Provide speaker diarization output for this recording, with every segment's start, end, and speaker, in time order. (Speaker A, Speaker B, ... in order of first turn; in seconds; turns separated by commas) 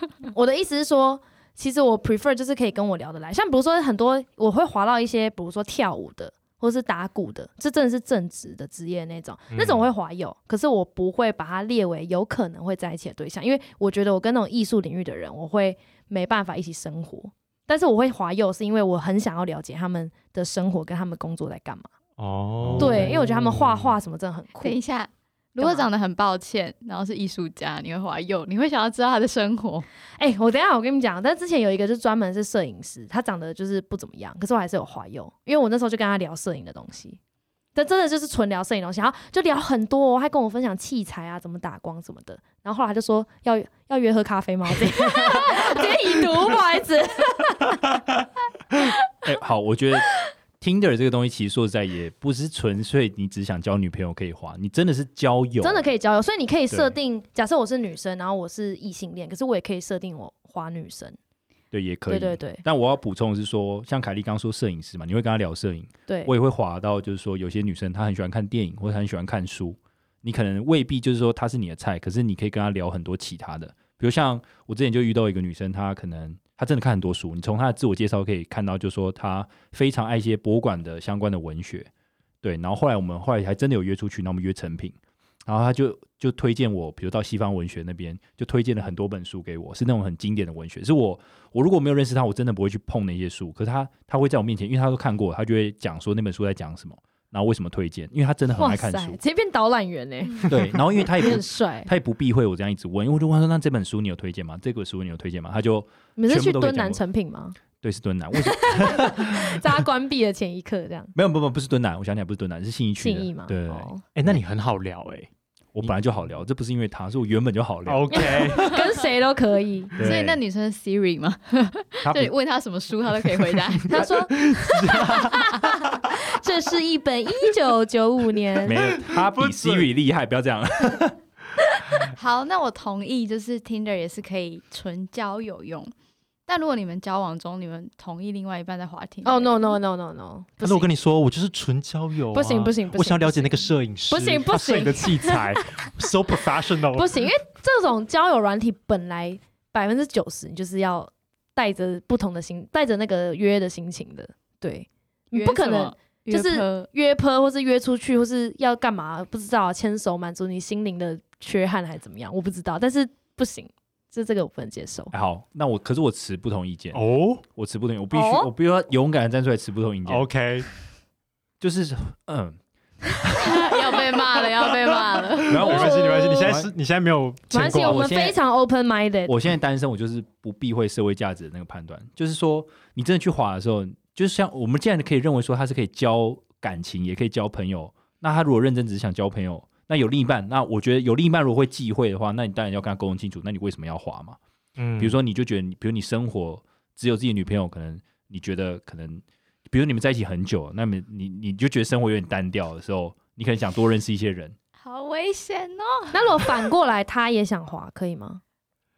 Speaker A: 0.2-21.9, Speaker B: 9.5-9.9, Speaker B: 22.2-23.9, Speaker C: 22.6-23.2, Speaker A: 22.8-24.8, Speaker D: 24.6-29.9, Speaker A: 25.6-25.9, Speaker A: 30.2-37.2, Speaker A: 37.7-47.8, Speaker C: 49.2-55.9, Speaker A: 55.6-61.2, Speaker C: 56.7-57.0, Speaker C: 61.7-81.9, Speaker A: 62.1-62.6, Speaker A: 66.1-66.3, Speaker C: 82.4-84.9, Speaker C: 85.5-99.2, Speaker A: 98.5-101.9, Speaker C: 100.4-107.0, Speaker A: 106.2-107.6, Speaker C: 107.8-109.6, Speaker A: 108.4-111.1, Speaker C: 111.1-114.4, Speaker A: 113.0-114.0, Speaker B: 114.1-115.3, Speaker C: 115.7-118.5, Speaker B: 117.9-118.9, Speaker A: 118.1-120.0, Speaker C: 120.0-120.4, Speaker D: 120.0-124.1, Speaker C: 122.0-122.3, Speaker A: 123.9-128.8, Speaker B: 124.0-125.4, Speaker C: 128.7-131.2, Speaker B: 128.7-129.9, Speaker D: 132.1-135.9, Speaker D: 136.5-139.6, Speaker A: 139.2-140.9, Speaker B: 140.6-147.3, Speaker A: 142.3-145.8, Speaker A: 146.9-165.1, Speaker D: 155.3-156.9, Speaker C: 165.1-170.3, Speaker B: 166.9-167.4, Speaker A: 168.1-168.5, Speaker B: 170.1-170.7, Speaker C: 171.6-172.6, Speaker C: 173.2-173.7, Speaker D: 173.4-175.7, Speaker C: 175.5-176.7, Speaker B: 175.5-178.1, Speaker A: 175.6-176.6, Speaker A: 177.5-179.3, Speaker C: 177.5-178.4, Speaker C: 179.2-194.4, Speaker B: 194.8-195.2, Speaker C: 195.0-204.5, Speaker D: 204.8-206.4, Speaker A: 206.1-208.4